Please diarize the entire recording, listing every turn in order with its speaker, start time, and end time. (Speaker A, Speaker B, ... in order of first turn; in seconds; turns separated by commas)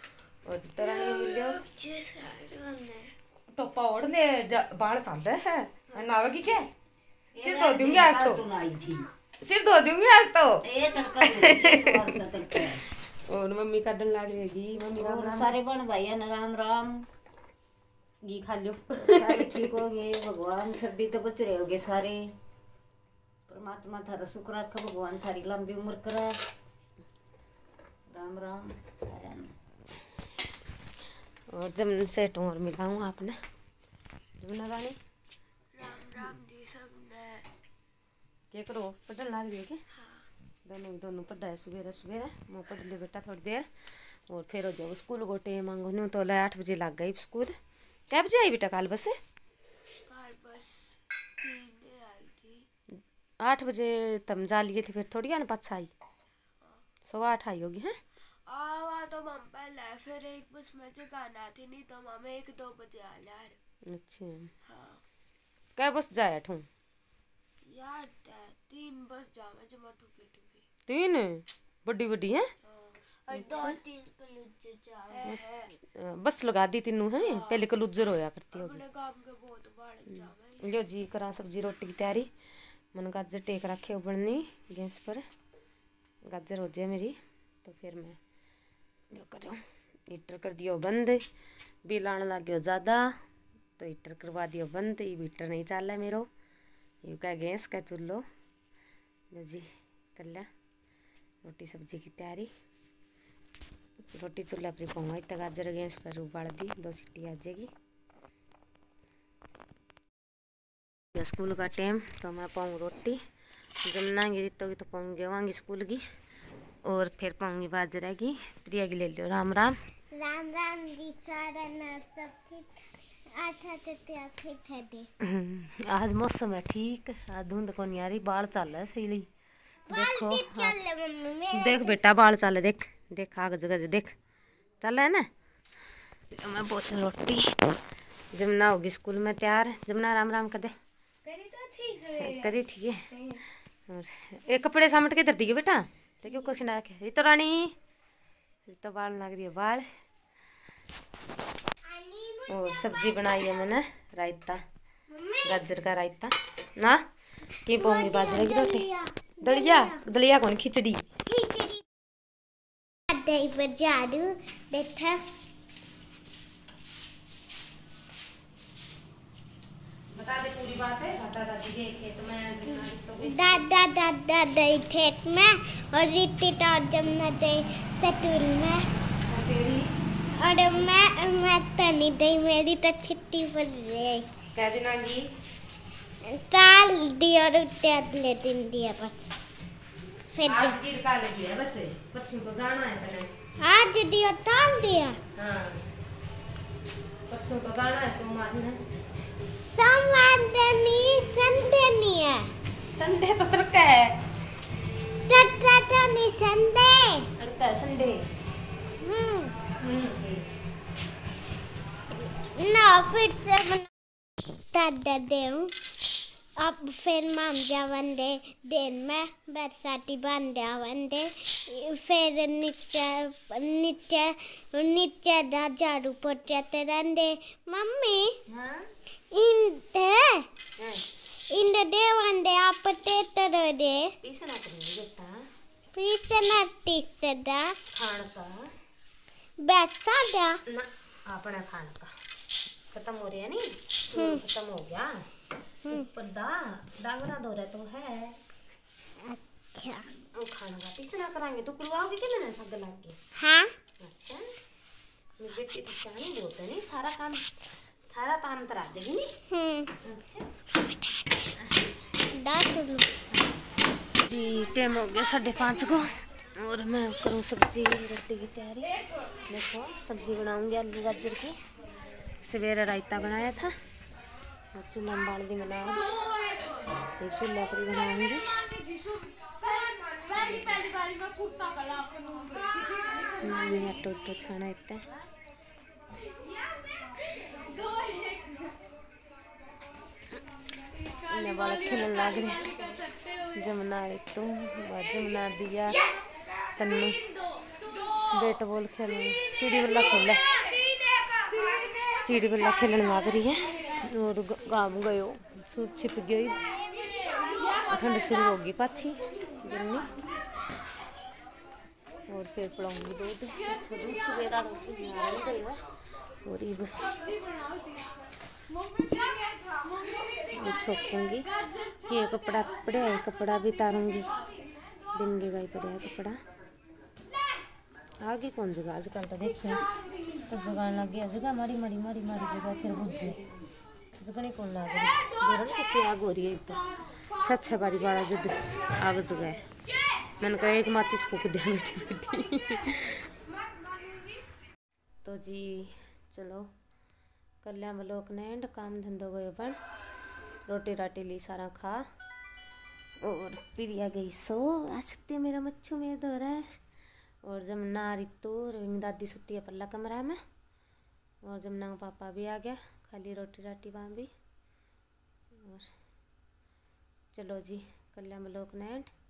Speaker A: 0.5-1.6, Speaker B: 0.8-3.1, Speaker A: 3.5-6.7, Speaker C: 7.3-9.1, Speaker A: 7.4-8.4, Speaker A: 9.4-10.6, Speaker C: 10.6-12.8, Speaker A: 11.2-12.7, Speaker A: 13.3-15.6, Speaker C: 14.8-17.1, Speaker A: 18.2-19.8, Speaker C: 19.1-22.3, Speaker C: 23.5-26.3, Speaker C: 28.1-29.5, Speaker A: 31.5-33.4, Speaker A: 34.4-35.0, Speaker B: 35.7-37.5, Speaker A: 38.5-39.8, Speaker B: 39.9-40.2, Speaker A: 40.6-43.7, Speaker A: 44.3-47.5, Speaker A: 48.1-49.1, Speaker B: 50.0-52.6, Speaker A: 53.4-55.9, Speaker A: 57.1-58.0, Speaker B: 58.5-63.5, Speaker A: 63.9-64.5, Speaker B: 64.7-65.0, Speaker A: 65.8-66.7, Speaker B: 67.7-70.6, Speaker A: 70.9-72.5, Speaker B: 72.6-74.4, Speaker A: 73.3-73.8, Speaker B: 74.9-75.7, Speaker A: 75.2-78.8, Speaker B: 77.2-77.7, Speaker B: 78.5-80.7, Speaker A: 80.1-82.3, Speaker A: 82.9-85.2, Speaker A: 86.3-88.2, Speaker A: 89.1-91.2, Speaker A: 91.8-93.1, Speaker A: 93.8-96.2, Speaker A: 97.0-98.2, Speaker A: 99.3-100.5, Speaker A: 101.4-102.5, Speaker A: 104.1-107.7, Speaker A: 111.1-113.2, Speaker A: 113.8-116.0, Speaker A: 116.8-119.8, Speaker D: 120.1-125.1, Speaker A: 125.2-129.3, Speaker D: 129.9-132.0, Speaker A: 129.9-130.8, Speaker A: 131.5-134.1, Speaker A: 134.8-135.3, Speaker A: 136.3-137.5, Speaker A: 138.3-140.7, Speaker B: 141.2-142.3, Speaker A: 142.1-143.1, Speaker A: 143.9-147.7, Speaker A: 148.7-149.8, Speaker D: 151.8-153.5, Speaker A: 152.5-154.6, Speaker D: 155.1-155.6, Speaker A: 155.4-157.0, Speaker A: 157.7-158.9, Speaker D: 157.7-160.0, Speaker A: 159.4-161.0, Speaker D: 161.3-161.8, Speaker D: 163.1-165.2, Speaker A: 170.1-173.6, Speaker D: 173.2-178.8, Speaker A: 179.3-179.8, Speaker D: 180.4-184.3, Speaker A: 184.5-185.2, Speaker D: 186.2-189.2, Speaker D: 190.3-190.8, Speaker A: 190.4-193.3, Speaker D: 193.6-195.2, Speaker A: 195.3-195.8, Speaker A: 197.3-198.8, Speaker D: 199.6-202.5, Speaker A: 202.9-204.1, Speaker D: 205.3-207.3, Speaker A: 207.4-208.2, Speaker D: 209.0-209.5, Speaker A: 209.8-210.4, Speaker D: 212.2-213.9, Speaker D: 214.7-215.7, Speaker D: 216.6-228.3, Speaker A: 228.5-228.8, Speaker D: 229.3-230.5, Speaker D: 231.5-234.1, Speaker A: 234.2-235.3, Speaker D: 235.9-237.7, Speaker A: 237.9-238.5, Speaker D: 239.6-240.6, Speaker A: 240.7-242.1, Speaker A: 242.9-245.1, Speaker D: 244.1-244.4, Speaker A: 245.9-248.3, Speaker D: 249.2-250.1, Speaker A: 250.3-253.2, Speaker D: 253.4-253.7, Speaker A: 254.0-254.4, Speaker A: 255.4-257.5, Speaker A: 258.1-259.3, Speaker D: 259.5-259.9, Speaker A: 260.0-260.5, Speaker D: 260.7-261.5, Speaker D: 262.3-263.1, Speaker A: 264.2-268.9, Speaker A: 269.5-271.5, Speaker A: 272.4-273.7, Speaker A: 274.7-276.0, Speaker A: 277.2-278.5, Speaker B: 279.9-280.3, Speaker A: 280.4-280.9, Speaker B: 281.0-282.5, Speaker A: 283.4-285.1, Speaker B: 287.9-288.4, Speaker A: 291.3-292.8, Speaker A: 293.5-296.0, Speaker A: 296.8-297.1, Speaker A: 298.3-300.5, Speaker A: 302.2-306.6, Speaker A: 307.8-310.0, Speaker A: 312.3-315.8, Speaker A: 316.4-317.0, Speaker A: 320.6-321.5, Speaker A: 322.1-324.3, Speaker A: 325.1-326.4, Speaker A: 328.2-329.9, Speaker A: 330.5-333.4, Speaker A: 334.2-336.8, Speaker A: 337.4-339.6, Speaker A: 340.4-343.2, Speaker A: 345.2-346.6, Speaker A: 347.6-349.8, Speaker A: 350.7-352.0, Speaker A: 353.2-356.6, Speaker A: 357.4-360.4, Speaker A: 361.4-364.3, Speaker A: 365.6-365.9, Speaker A: 367.3-369.1